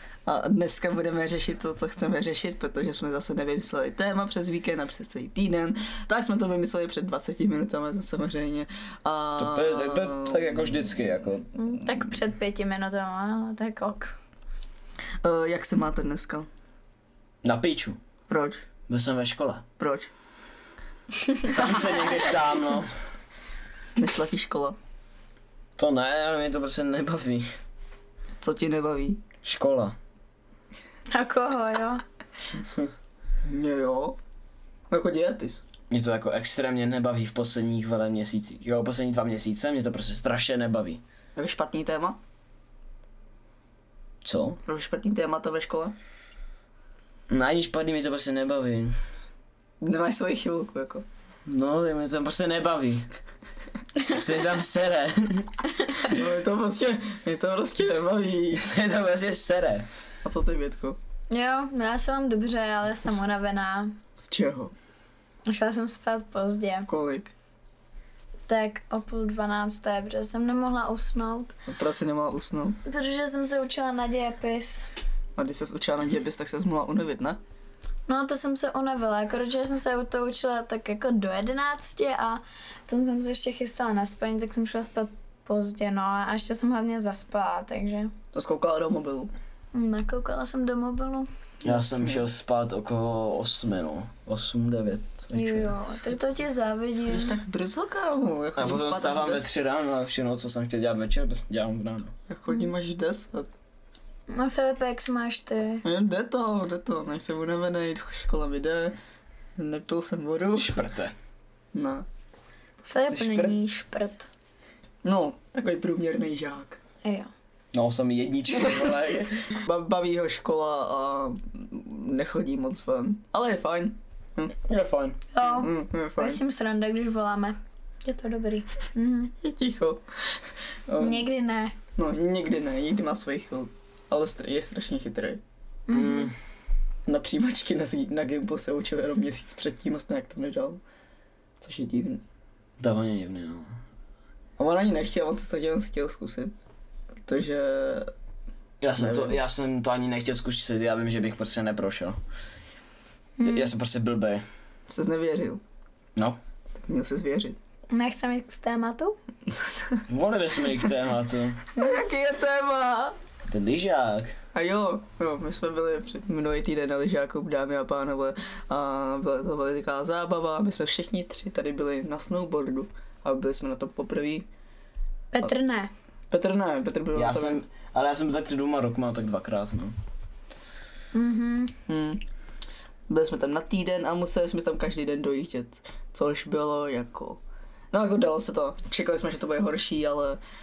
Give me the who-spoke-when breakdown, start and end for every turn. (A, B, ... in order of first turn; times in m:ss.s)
0:00.3-0:11.1 A
0:09.4-0:11.5 B
0:11.6-0:14.1 C
0:15.2-0:16.5 A
0:17.4-0:18.0 B
0:18.3-0:18.6 A
0:18.9-0:19.6 B
0:19.8-0:20.1 A
0:21.5-0:22.9 B
0:24.0-0:24.8 A
0:25.8-0:27.5 B
0:28.4-0:29.2 A
0:29.4-0:30.0 B
0:31.1-0:32.0 C
0:32.5-0:32.9 B
0:33.4-0:34.2 A
0:34.9-0:35.6 A
0:35.9-0:41.0 B
0:41.4-0:42.2 A
0:44.2-0:44.6 B
0:44.7-0:46.0 A
0:47.3-0:49.0 B
0:49.8-0:51.0 A
0:51.5-0:53.1 B
0:54.0-0:55.6 B
0:56.0-0:58.7 A
0:58.6-0:59.9 B
1:00.2-1:01.0 A
1:01.3-1:04.0 C
1:04.2-1:04.7 A
1:05.5-1:06.9 C
1:06.9-1:07.3 A
1:08.5-1:11.5 C
1:11.7-1:12.8 A
1:12.8-1:14.9 C
1:15.4-1:17.4 A
1:18.1-1:28.1 C
1:28.3-1:29.3 A
1:29.7-1:31.3 C
1:31.6-1:32.2 A
1:31.6-1:36.0 B
1:35.3-1:37.4 C
1:37.1-1:39.5 A
1:38.6-1:42.1 B
1:42.3-1:43.5 A
1:44.3-1:45.8 C
1:45.8-1:49.0 A
1:49.6-1:50.9 A
1:50.6-1:51.2 B
1:51.7-1:52.0 A
1:52.9-1:54.3 C
1:53.1-1:53.5 B
1:55.0-1:56.8 A
1:57.0-1:57.3 C
1:57.7-1:59.5 B
1:58.5-1:59.0 A
1:59.5-2:04.5 A
2:04.6-2:05.2 B
2:05.3-2:09.3 C
2:05.4-2:06.4 A
2:09.4-2:11.3 A
2:11.0-2:11.7 C
2:12.0-2:15.4 A
2:15.9-2:16.3 C
2:15.9-2:16.3 B
2:17.1-2:20.8 A
2:21.6-2:22.2 A
2:22.8-2:23.7 B
2:24.6-2:26.5 A
2:27.3-2:28.1 A
2:28.8-2:32.2 B
2:29.0-2:29.4 A
2:33.4-2:33.7 C
2:33.4-2:34.4 B
2:34.9-2:35.6 A
2:36.8-2:37.6 A
2:37.9-2:39.2 C
2:39.5-2:40.0 A
2:40.1-2:41.6 B
2:41.8-2:43.2 A
2:43.5-2:44.4 B
2:44.5-2:54.5 A
2:55.3-2:55.9 C
2:56.3-2:57.6 A
2:57.2-2:59.9 B
3:01.1-3:01.8 C
3:01.9-3:02.2 A
3:03.1-3:07.4 A
3:07.9-3:10.4 A